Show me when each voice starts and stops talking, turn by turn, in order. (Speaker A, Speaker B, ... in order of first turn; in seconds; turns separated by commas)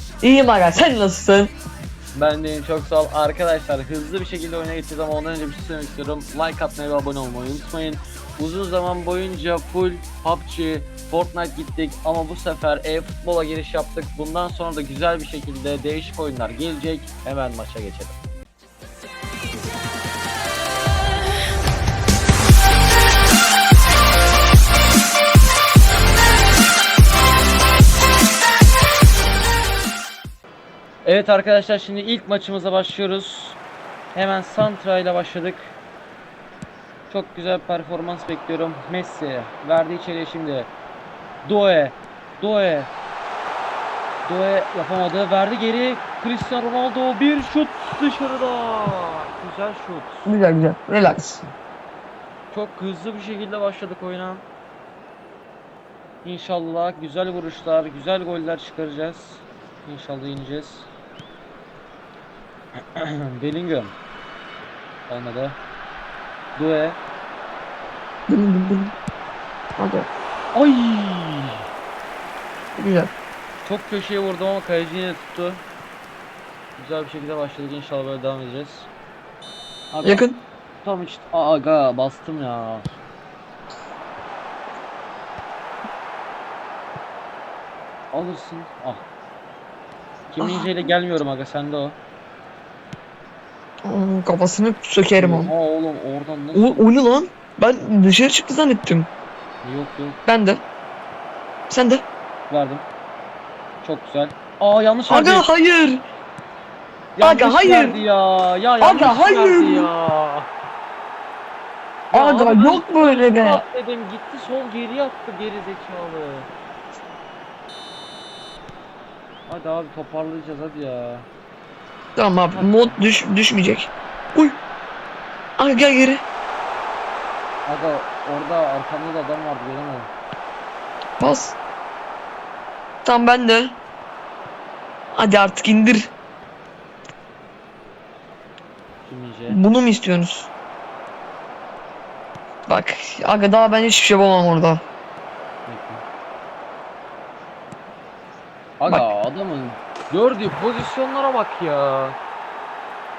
Speaker A: 0.2-1.5, Speaker B: 2.1-18.2, Speaker B: 31.1-33.6, Speaker B: 34.1-35.8, Speaker B: 37.1-40.7, Speaker B: 41.4-42.9, Speaker B: 44.2-50.3, Speaker A: 50.3-51.4, Speaker B: 52.5-54.4, Speaker B: 56.2-60.9, Speaker B: 62.8-63.9, Speaker B: 65.1-65.6, Speaker B: 66.5-67.0, Speaker A: 68.3-68.9, Speaker A: 69.8-70.1, Speaker B: 70.5-71.7, Speaker A: 72.8-73.1, Speaker B: 73.6-75.6, Speaker B: 76.8-78.9, Speaker B: 79.9-80.2, Speaker A: 80.0-80.4, Speaker B: 80.8-83.0, Speaker B: 88.1-89.1, Speaker B: 90.3-92.0, Speaker A: 90.4-90.7, Speaker A: 93.8-95.5, Speaker B: 95.2-96.9, Speaker A: 96.5-99.1, Speaker B: 99.6-100.2, Speaker A: 100.3-100.6, Speaker A: 101.7-102.0, Speaker B: 102.5-102.9, Speaker B: 103.8-105.5, Speaker A: 105.1-106.0, Speaker B: 107.2-110.5, Speaker A: 107.2-108.0, Speaker A: 108.8-109.9, Speaker B: 112.1-116.5, Speaker A: 112.1-113.6, Speaker B: 119.5-121.3, Speaker A: 122.2-124.6, Speaker B: 122.5-123.2, Speaker A: 125.6-126.2, Speaker B: 127.7-130.1, Speaker A: 131.2-131.6, Speaker A: 133.1-133.7, Speaker A: 135.1-136.1, Speaker B: 139.1-139.6, Speaker A: 139.5-140.5, Speaker A: 142.7-144.8, Speaker B: 145.7-146.0, Speaker B: 148.8-152.2